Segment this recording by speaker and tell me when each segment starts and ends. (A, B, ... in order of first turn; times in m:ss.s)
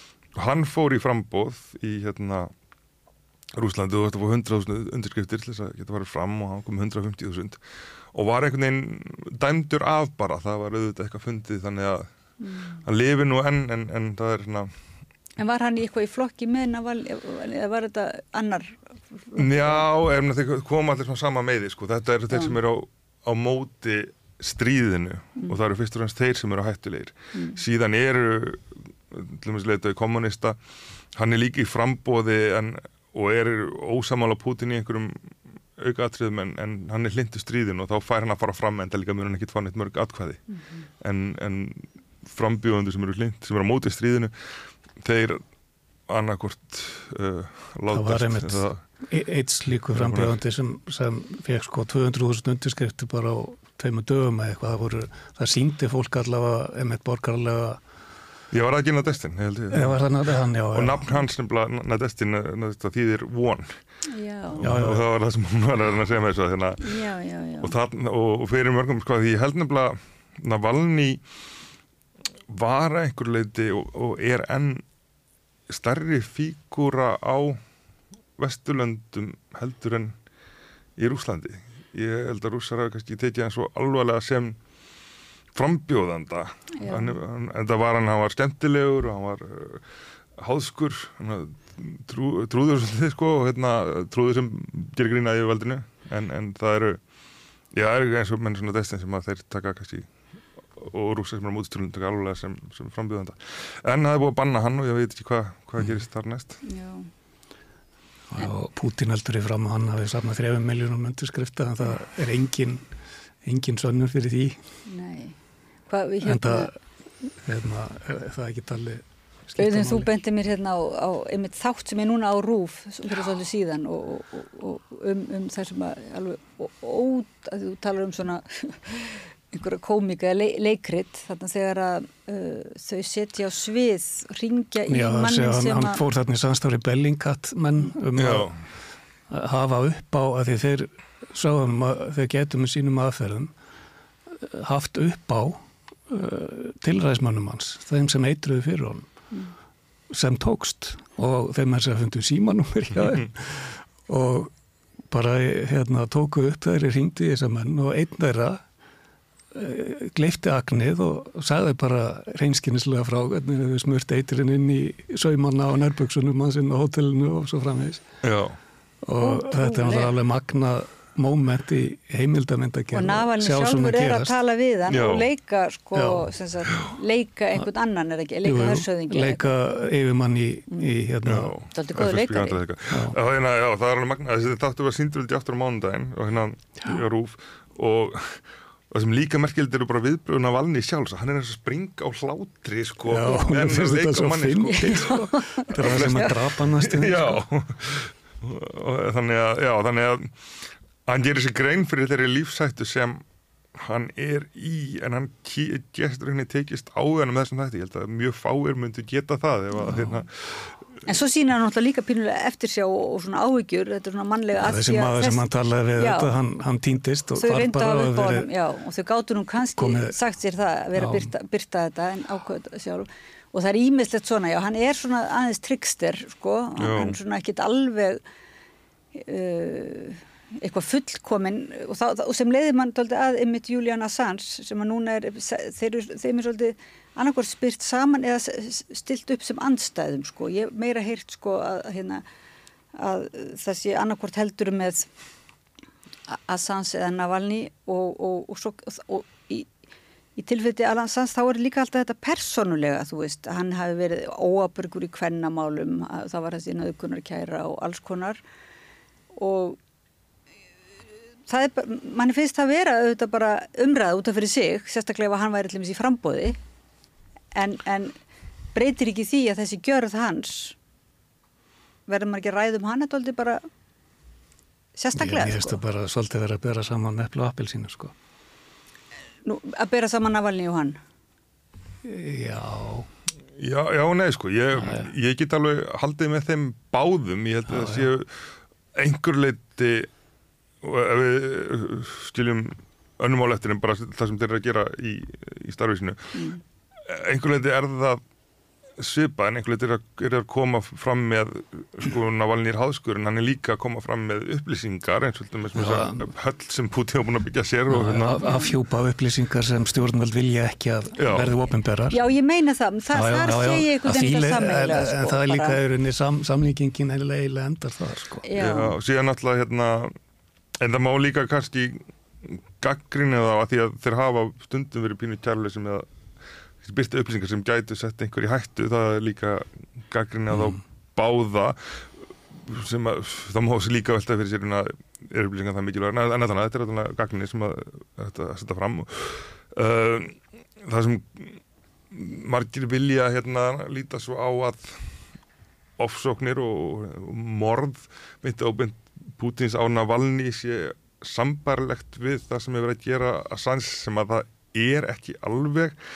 0:00.3-0:02.5 A
0:03.5-0:07.6 A
0:08.1-0:12.1 A
0:12.4-0:12.8 B
0:12.8-0:14.7 A
0:15.4-0:18.8 B
0:19.3-0:19.9 B
0:19.4-0:30.6 A
0:22.3-0:22.6 B
0:31.1-0:35.2 A
0:35.8-0:40.4 A
0:41.0-0:44.3 A
0:45.0-0:45.4 A
0:46.1-0:48.8 A
0:47.9-0:57.8 C
0:50.0-0:50.3 A
0:58.5-1:03.8 A
0:59.7-1:01.2 C
1:04.1-1:04.6 B
1:04.5-1:07.0 A
1:04.6-1:05.0 C
1:06.8-1:07.7 B
1:07.6-1:11.2 A
1:12.5-1:14.8 A
1:15.7-1:17.6 A
1:18.4-1:20.1 A
1:21.0-1:24.6 A
1:25.5-1:29.8 A
1:26.8-1:27.2 B
1:30.4-1:37.0 A
1:37.7-1:40.1 A
1:40.8-1:46.6 A
1:46.6-1:47.1 B
1:48.3-1:52.8 C
1:53.4-1:54.6 C
1:54.9-1:55.4 B
1:55.9-1:56.7 B
1:56.2-1:56.7 C
1:57.4-2:00.1 C
1:59.6-2:16.0 B
2:14.9-2:18.5 C
2:18.2-2:18.6 A
2:19.3-2:23.5 C
2:24.3-2:29.1 C
2:30.1-2:34.5 C
2:35.1-2:38.6 C
2:39.5-2:48.0 C
2:48.2-2:48.6 A
2:49.0-2:54.3 C
2:49.2-2:50.1 B
2:52.9-2:59.5 B
2:54.9-2:55.3 A
2:55.9-2:56.2 C
2:58.4-3:01.5 C
3:01.2-3:20.3 A
3:01.7-3:02.6 B
3:02.9-3:03.2 C
3:13.1-3:17.4 C
3:14.8-3:16.3 B
3:21.0-3:23.2 A
3:23.7-3:30.8 A
3:29.8-3:30.1 C
3:31.0-3:36.3 B
3:34.6-3:38.5 C
3:37.3-3:48.2 B
3:39.8-3:40.1 C
3:41.0-3:41.3 C
3:46.8-3:47.2 A
3:49.1-4:02.2 B
4:03.0-4:05.1 B
4:06.3-4:09.7 B
4:10.4-4:18.4 B
4:19.3-4:19.8 B
4:21.5-4:26.6 B
4:27.5-4:28.2 B
4:28.7-4:30.8 B
4:32.1-4:33.6 B
4:35.0-4:35.8 B
4:35.1-4:38.1 C
4:39.4-4:41.0 B
4:42.0-4:43.1 C
4:43.6-4:48.4 A
4:44.8-4:45.1 C
4:47.7-4:48.1 C
4:48.9-4:50.1 A
4:50.8-4:56.4 A
4:56.3-4:56.6 B
4:57.0-4:58.2 A
4:59.0-5:08.4 A
5:05.7-5:06.2 C
5:07.9-5:12.2 C
5:08.4-5:08.7 B
5:11.2-5:11.5 A
5:12.1-5:15.8 B
5:13.1-5:18.4 C
5:18.4-5:19.0 B
5:18.6-5:20.1 A
5:20.8-5:26.1 A
5:26.8-5:31.8 A
5:30.5-5:30.8 C
5:32.5-5:41.6 A
5:42.1-5:45.0 A
5:46.0-5:56.0 A